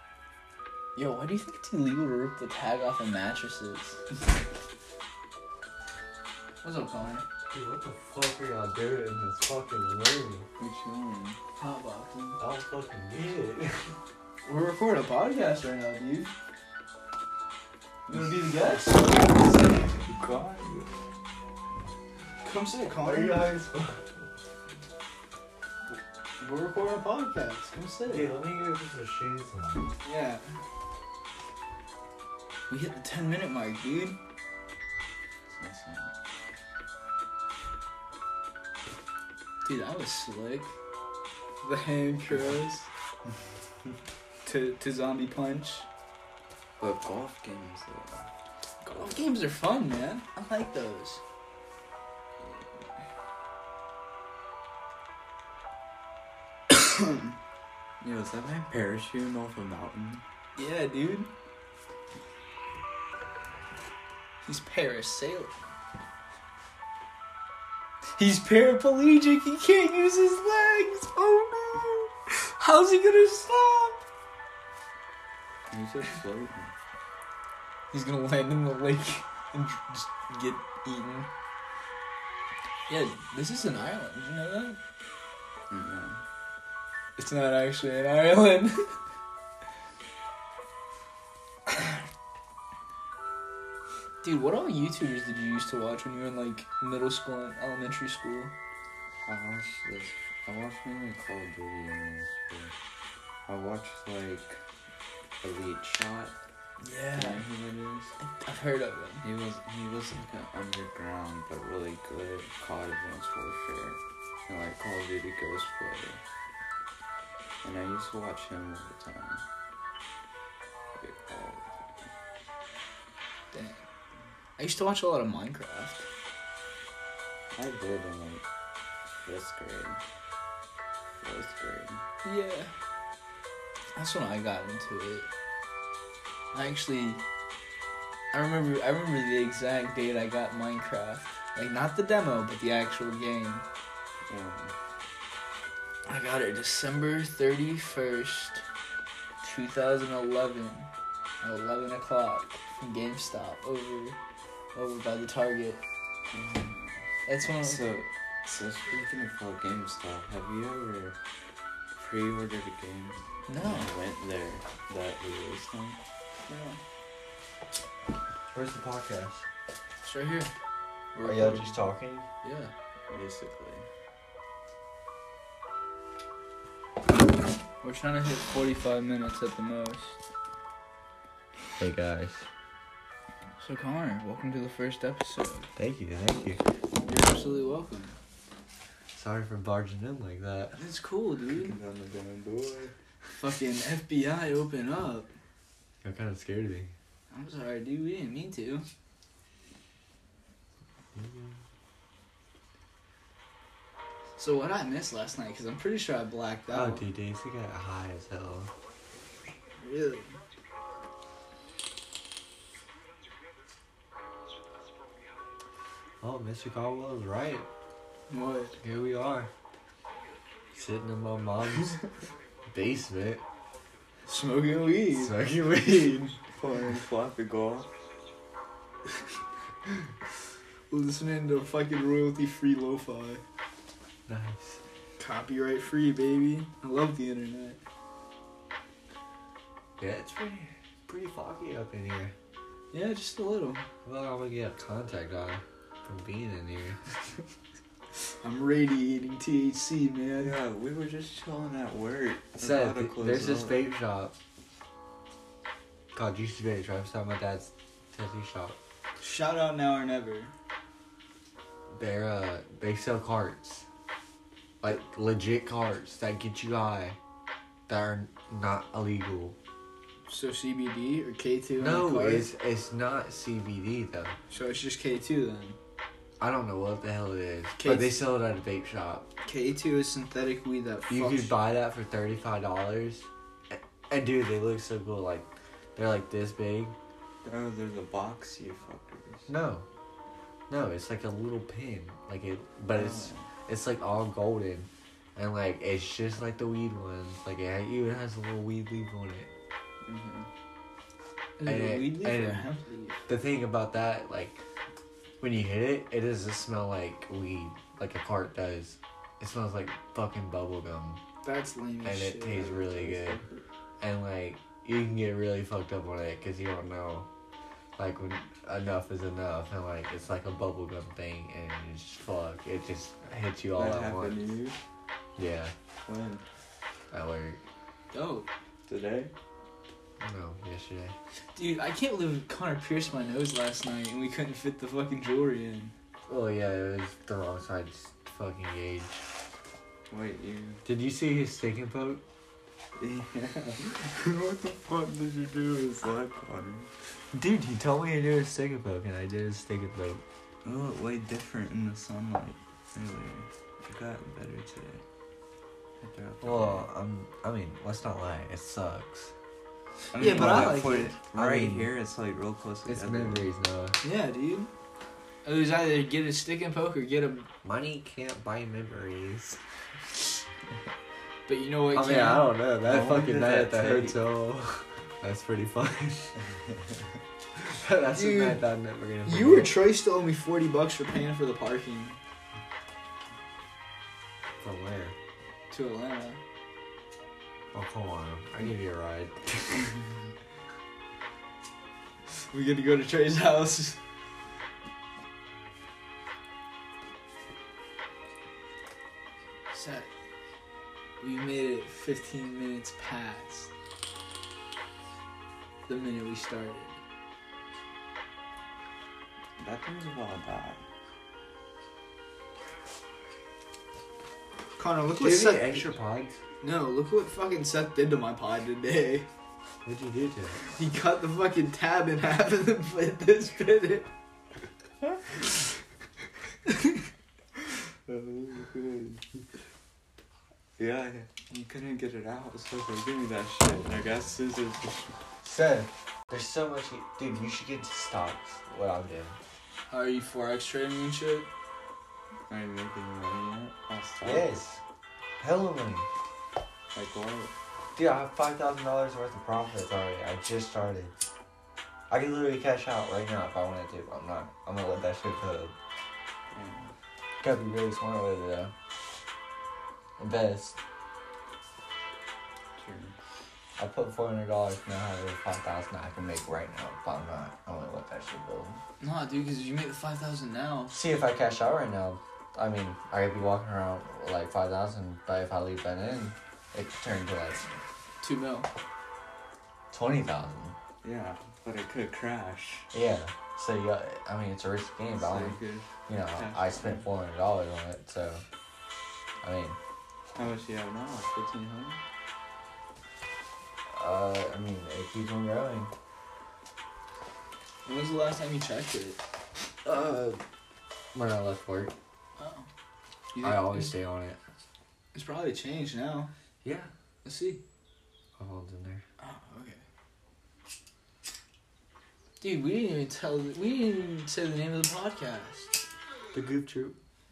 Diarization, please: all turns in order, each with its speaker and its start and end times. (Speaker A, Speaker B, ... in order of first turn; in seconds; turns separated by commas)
Speaker A: 1.0-4.0, Speaker A: 6.6-7.2, Speaker B: 7.5-10.5, Speaker C: 10.6-11.4, Speaker A: 11.6-12.4, Speaker B: 12.4-14.0, Speaker A: 14.4-16.3, Speaker C: 18.1-20.9, Speaker A: 18.1-19.1, Speaker A: 22.4-23.6, Speaker B: 23.0-24.2, Speaker A: 26.4-28.3, Speaker B: 28.1-29.9, Speaker A: 30.0-30.6, Speaker A: 32.7-34.2, Speaker C: 35.5-36.1, Speaker A: 39.6-40.7, Speaker A: 41.6-42.9, Speaker A: 44.5-45.9, Speaker C: 46.8-48.3, Speaker C: 48.8-49.2, Speaker A: 48.9-51.2, Speaker C: 58.0-60.2, Speaker A: 60.6-61.3, Speaker A: 64.4-65.5, Speaker A: 68.2-74.0, Speaker C: 75.7-76.7, Speaker A: 77.9-81.3, Speaker A: 82.9-84.8, Speaker C: 85.7-86.2, Speaker A: 87.2-89.0, Speaker A: 94.2-98.5, Speaker C: 99.3-102.7, Speaker C: 103.5-104.6, Speaker C: 105.4-106.3, Speaker A: 106.8-107.4, Speaker C: 107.1-108.1, Speaker A: 108.2-109.2, Speaker C: 109.2-116.2, Speaker C: 117.6-119.4, Speaker C: 121.0-122.1, Speaker A: 123.5-123.8, Speaker A: 124.6-126.1, Speaker C: 127.5-128.4, Speaker C: 129.1-130.0, Speaker C: 131.2-132.0, Speaker A: 132.2-132.7, Speaker A: 133.9-135.3, Speaker A: 136.5-137.2, Speaker A: 138.3-143.7, Speaker C: 144.3-144.8, Speaker A: 146.1-148.6, Speaker A: 149.4-150.9, Speaker A: 151.4-154.2, Speaker A: 154.7-155.8, Speaker C: 156.3-161.2, Speaker A: 157.3-157.9, Speaker C: 161.9-166.0, Speaker A: 163.5-163.9, Speaker A: 166.5-166.8, Speaker B: 168.5-169.5, Speaker A: 170.0-170.5, Speaker A: 171.1-171.8, Speaker B: 171.2-172.3, Speaker A: 172.4-172.7, Speaker C: 173.1-173.9, Speaker A: 177.8-180.2, Speaker B: 181.8-182.4, Speaker A: 183.6-185.7, Speaker B: 185.8-186.6, Speaker A: 187.1-188.2, Speaker B: 189.2-190.8, Speaker A: 190.8-191.8, Speaker C: 191.5-192.9, Speaker A: 193.4-195.3, Speaker B: 196.0-196.9, Speaker A: 197.3-198.9, Speaker B: 201.1-201.6, Speaker A: 204.4-207.0, Speaker B: 206.7-208.7, Speaker A: 209.8-210.4, Speaker B: 216.2-217.7, Speaker A: 218.3-218.8, Speaker B: 218.8-219.5, Speaker B: 220.7-222.0, Speaker B: 222.7-223.4, Speaker A: 224.3-225.4, Speaker B: 225.1-226.4, Speaker C: 226.5-227.9, Speaker A: 230.9-233.4, Speaker B: 234.3-234.8, Speaker A: 235.2-237.8, Speaker B: 240.0-242.3, Speaker A: 242.9-243.8, Speaker B: 244.0-247.0, Speaker A: 248.4-250.6, Speaker C: 250.4-253.8, Speaker B: 252.6-254.3, Speaker B: 256.1-258.8, Speaker A: 259.2-260.5, Speaker B: 261.9-263.9, Speaker B: 264.8-267.2, Speaker B: 267.9-269.6, Speaker A: 270.3-272.5, Speaker B: 271.8-274.4, Speaker A: 274.5-275.8, Speaker B: 276.4-279.3, Speaker A: 277.8-278.1, Speaker A: 279.4-281.5, Speaker B: 281.1-287.0, Speaker C: 287.4-289.5, Speaker B: 289.5-289.9, Speaker B: 290.7-299.5, Speaker C: 292.9-293.5, Speaker C: 300.1-300.5, Speaker A: 301.6-303.3, Speaker B: 301.6-302.7, Speaker B: 303.3-304.6, Speaker B: 305.4-311.2, Speaker A: 311.4-313.0, Speaker B: 312.0-313.4, Speaker C: 312.9-313.6, Speaker B: 314.0-317.3, Speaker B: 318.0-324.4, Speaker C: 323.8-324.8, Speaker B: 325.4-325.7, Speaker C: 326.1-326.4, Speaker B: 327.1-327.6, Speaker A: 328.1-328.5, Speaker C: 328.9-329.3, Speaker B: 330.2-331.1, Speaker A: 331.6-335.9, Speaker B: 336.3-339.2, Speaker C: 340.1-340.8, Speaker B: 340.9-342.2, Speaker C: 343.0-346.9, Speaker B: 347.3-350.2, Speaker C: 350.6-355.0, Speaker C: 356.0-356.9, Speaker B: 356.4-359.3, Speaker C: 360.1-363.4, Speaker A: 360.2-361.1, Speaker B: 360.2-361.9, Speaker B: 362.9-364.0, Speaker A: 364.0-364.7, Speaker A: 365.4-367.5, Speaker B: 367.6-369.6, Speaker A: 371.5-372.6, Speaker B: 371.9-376.4, Speaker C: 372.8-374.2, Speaker B: 377.7-379.8, Speaker A: 378.1-378.6, Speaker A: 379.2-382.2, Speaker B: 384.6-385.2, Speaker A: 385.7-386.4, Speaker B: 387.7-389.9, Speaker A: 392.5-394.0, Speaker A: 399.7-400.1, Speaker A: 401.2-403.7, Speaker A: 405.9-407.0, Speaker C: 409.6-410.8, Speaker A: 414.8-415.9, Speaker B: 415.2-416.4, Speaker A: 416.6-419.3, Speaker B: 419.9-420.6, Speaker A: 420.8-424.1, Speaker A: 426.7-426.9, Speaker C: 428.1-429.2, Speaker C: 430.8-435.1, Speaker B: 435.4-439.4, Speaker A: 439.9-441.5, Speaker C: 442.5-444.5, Speaker B: 444.2-444.8, Speaker B: 445.4-446.1, Speaker C: 446.9-447.5, Speaker B: 448.0-451.1, Speaker B: 452.1-455.8, Speaker C: 456.5-456.9, Speaker B: 457.4-458.7, Speaker B: 460.2-460.8, Speaker C: 462.8-463.2, Speaker B: 463.8-468.8, Speaker A: 469.0-471.0, Speaker B: 470.9-477.6, Speaker A: 478.2-478.7, Speaker B: 479.9-480.8, Speaker C: 481.0-482.9, Speaker B: 482.9-488.4, Speaker C: 485.1-487.1, Speaker B: 489.4-489.8, Speaker C: 490.4-492.0, Speaker B: 493.9-495.9, Speaker A: 497.9-499.2, Speaker B: 499.9-500.4, Speaker B: 501.1-501.9, Speaker A: 502.4-502.7, Speaker A: 503.3-504.0, Speaker B: 503.4-504.4, Speaker A: 505.1-506.3, Speaker B: 506.6-506.9, Speaker A: 507.2-507.6, Speaker B: 508.4-509.0, Speaker A: 509.2-509.8, Speaker A: 512.4-515.8, Speaker B: 516.3-517.0